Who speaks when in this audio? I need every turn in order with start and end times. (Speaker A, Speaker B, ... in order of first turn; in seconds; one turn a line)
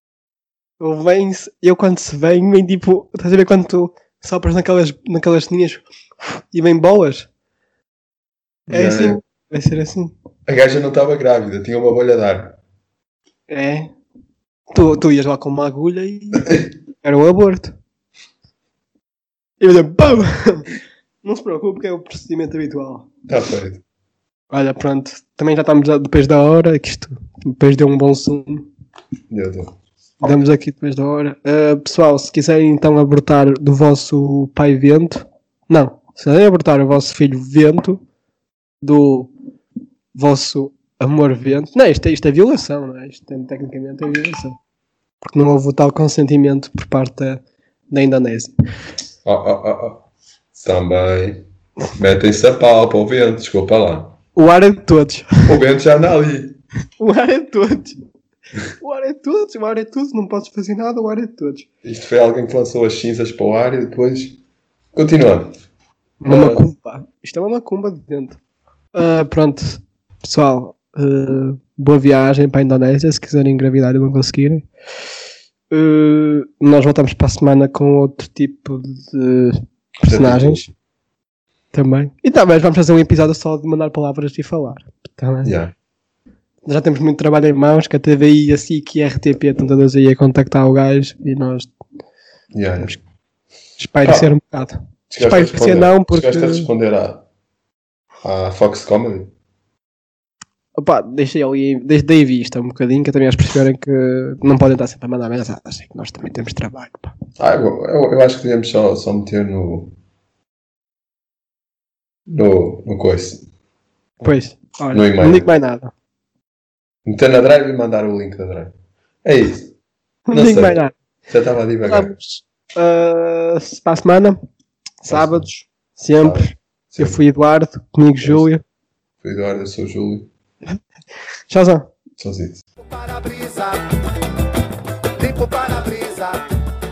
Speaker A: 0.8-7.3
Speaker A: 8.7-10.1
Speaker B: 8.7-9.2
Speaker B: 10.5-12.6
Speaker A: 13.5-13.9
Speaker A: 14.7-17.8
Speaker A: 19.6-20.7
Speaker A: 21.2-23.1
Speaker B: 23.3-23.8
Speaker A: 24.5-28.7
Speaker B: 29.3-29.7
Speaker A: 30.2-38.0
Speaker A: 38.8-39.3
Speaker A: 40.1-44.6
Speaker A: 45.3-48.5
Speaker B: 49.2-50.0
Speaker B: 50.5-51.4
Speaker B: 52.0-54.2
Speaker A: 54.4-55.5
Speaker B: 55.5-56.6
Speaker A: 57.0-58.0
Speaker A: 58.8-61.7
Speaker B: 61.8-64.4
Speaker B: 64.9-65.5
Speaker A: 66.2-68.4
Speaker B: 66.2-66.7
Speaker A: 69.0-74.7
Speaker A: 75.7-80.7
Speaker B: 80.1-80.7
Speaker A: 81.7-85.6
Speaker B: 85.4-85.7
Speaker A: 86.7-91.7
Speaker B: 92.5-93.0
Speaker A: 93.8-96.7
Speaker B: 94.0-94.3
Speaker B: 95.1-97.2
Speaker B: 98.2-99.3
Speaker A: 100.8-107.1
Speaker B: 107.4-109.9
Speaker B: 112.3-113.4
Speaker A: 114.2-115.9
Speaker B: 114.9-115.5
Speaker B: 117.0-119.7
Speaker A: 120.3-121.0
Speaker B: 120.3-122.1
Speaker A: 121.8-124.4
Speaker A: 125.0-128.6
Speaker B: 125.1-125.5
Speaker B: 126.2-127.2
Speaker B: 129.2-130.3
Speaker A: 131.5-131.9
Speaker B: 132.2-132.6
Speaker C: 132.8-133.8
Speaker C: 135.2-136.4